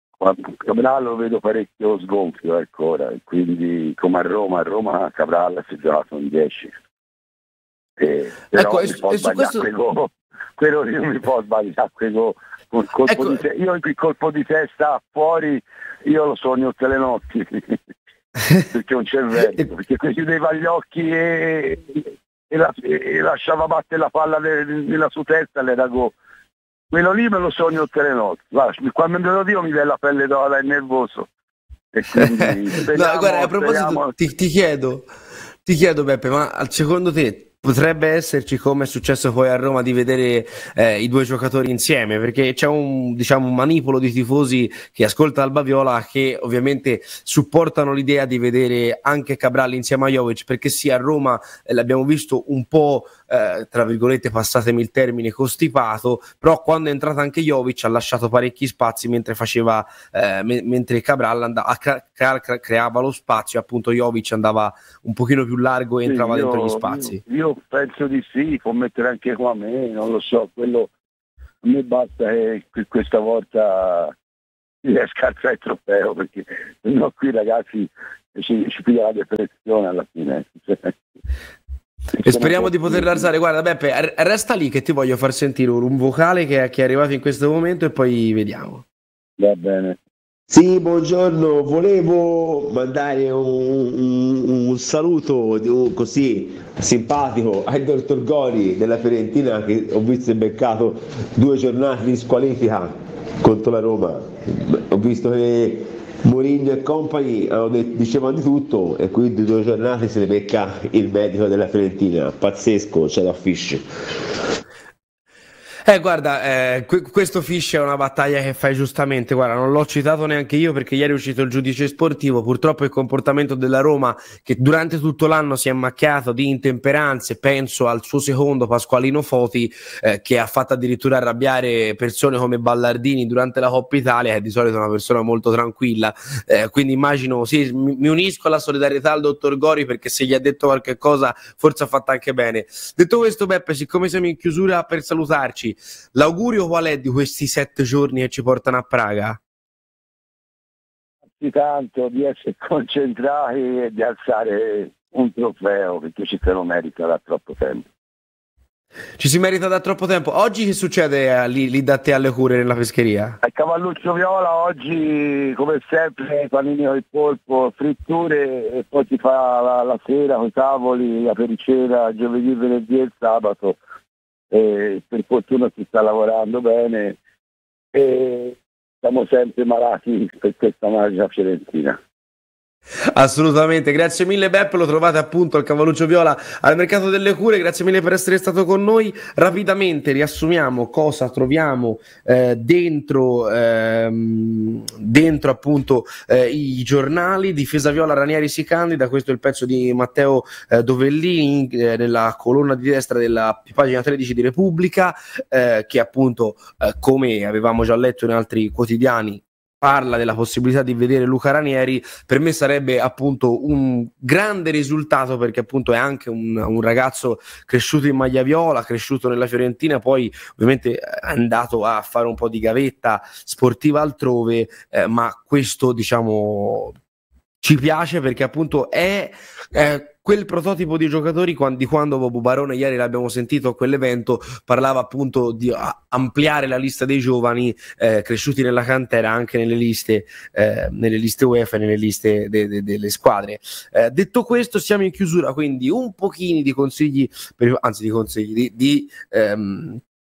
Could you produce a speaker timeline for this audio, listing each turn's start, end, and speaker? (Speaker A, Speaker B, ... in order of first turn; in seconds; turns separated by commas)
Speaker A: 0.2-6.7, Speaker A: 8.0-17.8, Speaker B: 8.5-9.7, Speaker B: 13.1-13.4, Speaker A: 18.7-26.1, Speaker A: 26.9-31.3, Speaker A: 31.9-34.1, Speaker B: 32.1-35.1, Speaker B: 35.6-67.2, Speaker A: 66.0-70.9, Speaker A: 71.6-74.1, Speaker A: 74.8-81.0, Speaker A: 82.2-83.3, Speaker B: 82.2-88.8, Speaker A: 89.4-90.0, Speaker C: 90.5-113.8, Speaker B: 115.9-149.4, Speaker A: 151.4-157.9, Speaker B: 159.2-163.4, Speaker A: 163.4-173.8, Speaker A: 174.5-177.2, Speaker A: 177.9-182.0, Speaker B: 183.2-226.9, Speaker B: 227.6-250.0